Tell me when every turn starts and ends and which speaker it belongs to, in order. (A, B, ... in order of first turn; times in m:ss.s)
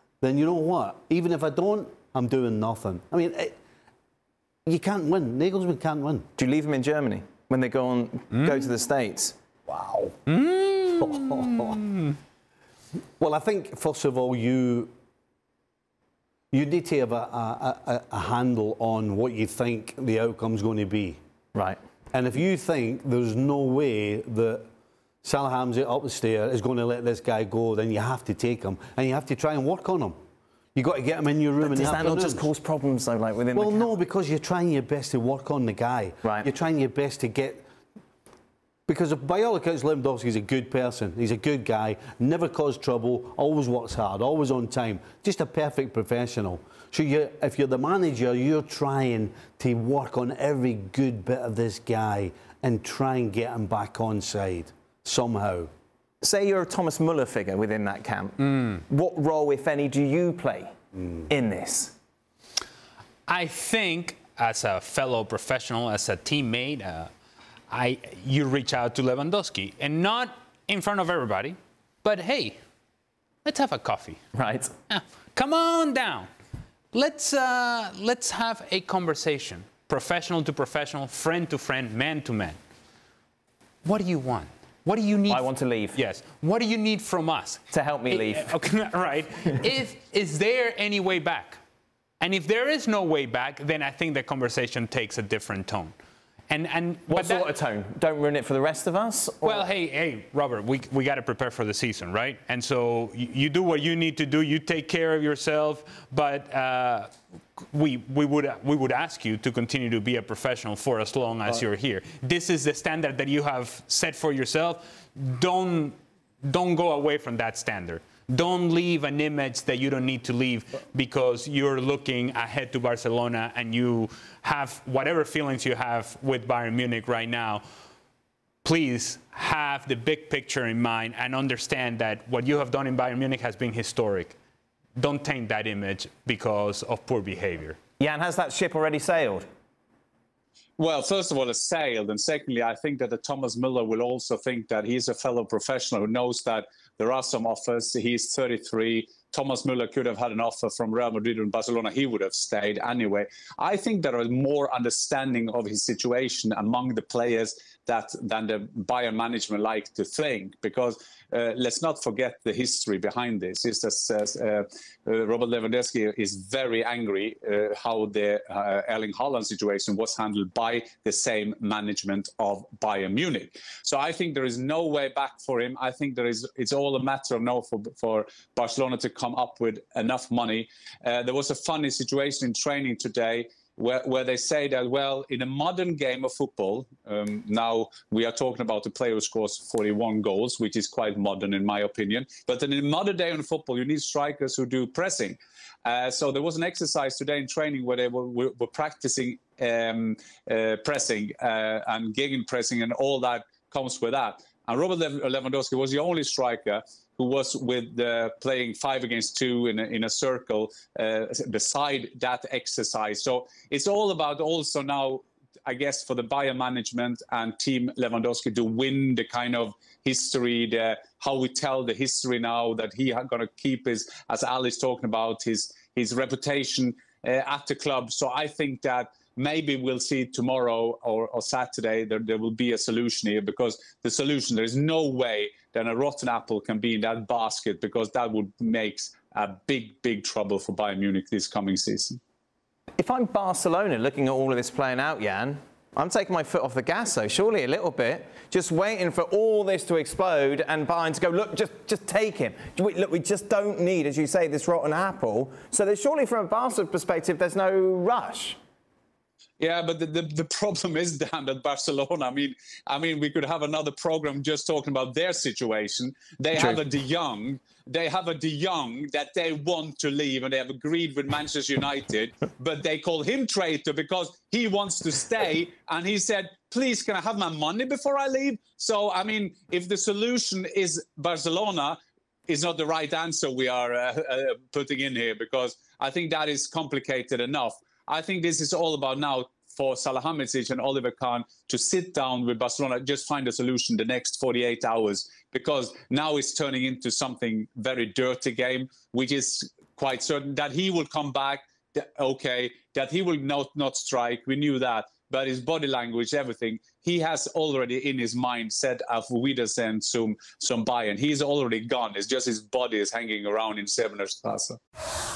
0:00.2-0:03.5 A
0:04.7-0:06.3 A
0:06.4-0:09.4 B
0:09.7-0:10.2 A
0:10.3-0:11.5 C
0:11.0-0:11.9 A
0:13.2-0:14.9 A
0:16.5-0:21.2 A
0:21.5-0:21.8 B
0:22.1-0:24.6 A
0:25.2-0:30.2 A
0:30.8-0:32.5 A
0:31.6-0:33.9 B
0:33.5-0:37.6 A
0:38.9-0:55.7 A
0:56.2-1:00.8 B
1:01.3-1:01.9 B
1:03.3-1:07.1 C
1:07.7-1:12.6 C
1:13.5-1:14.2 C
1:14.3-1:14.7 B
1:14.9-1:16.3 C
1:16.9-1:22.6 C
1:23.8-1:31.6 C
1:25.3-1:26.0 B
1:27.7-1:28.5 B
1:32.2-1:35.9 C
1:36.5-1:37.5 C
1:37.1-1:39.6 B
1:39.4-1:47.1 C
1:47.7-2:07.6 C
2:08.6-2:14.4 C
2:15.0-2:17.8 C
2:18.0-2:19.5 B
2:20.8-4:02.2 D
4:03.0-4:18.6 B
4:19.6-5:14.8 D